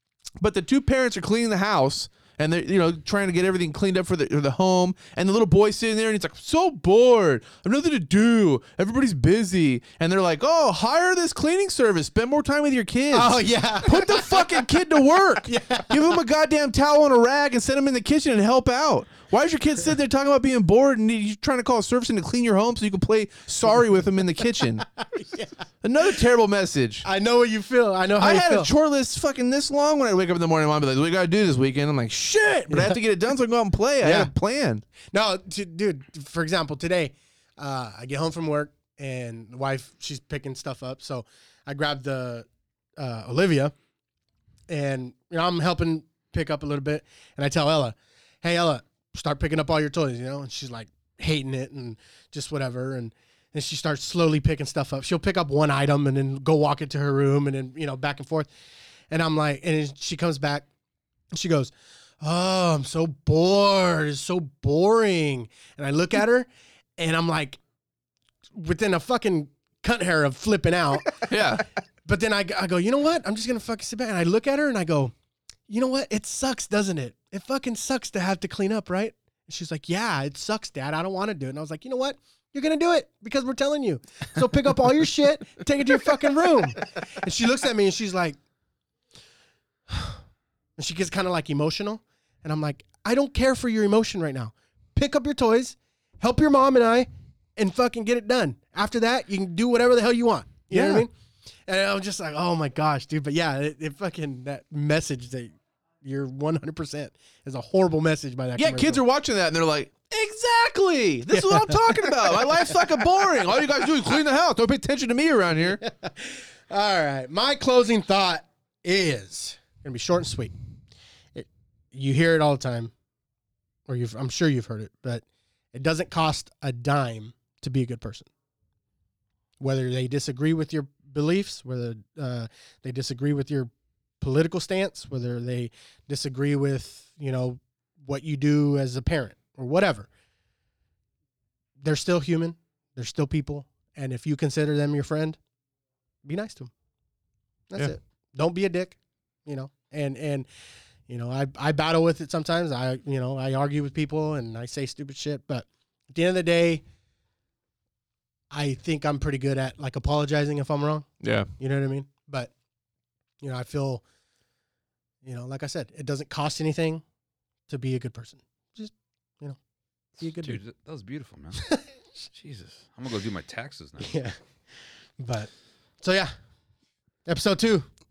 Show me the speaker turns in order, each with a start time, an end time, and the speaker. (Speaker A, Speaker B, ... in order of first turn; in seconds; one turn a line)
Speaker A: 0.4-24.9
Speaker B: 13.1-16.2
Speaker B: 25.1-25.5
Speaker A: 25.8-27.1
Speaker B: 27.0-28.7
Speaker A: 28.2-34.8
Speaker B: 32.7-33.0
Speaker B: 34.0-34.3
Speaker B: 35.1-43.7
Speaker B: 44.7-58.5
Speaker B: 59.1-60.7
Speaker B: 61.3-67.6
Speaker B: 68.5-75.1
Speaker A: 71.3-71.6
Speaker B: 75.7-88.4
Speaker B: 89.9-90.2
Speaker B: 90.8-101.1
Speaker A: 100.7-101.1
Speaker B: 101.7-109.0
Speaker A: 108.6-115.8
Speaker B: 111.4-112.4
Speaker B: 115.8-120.5
Speaker B: 121.3-122.9
Speaker B: 123.9-128.3
Speaker B: 129.6-140.1
Speaker B: 141.8-145.4
Speaker B: 146.2-146.7
Speaker B: 147.7-150.5
Speaker B: 151.1-156.8
Speaker B: 158.5-161.1
Speaker A: 161.2-161.5
Speaker B: 161.6-162.5
Speaker B: 163.4-164.0
Speaker B: 165.2-167.0
Speaker B: 167.7-169.6
Speaker B: 170.2-170.6
Speaker C: 170.4-171.6
Speaker B: 171.6-171.8
Speaker C: 172.3-174.2
Speaker B: 174.0-174.4
Speaker B: 175.2-175.5
Speaker B: 176.0-176.3
Speaker B: 177.2-177.9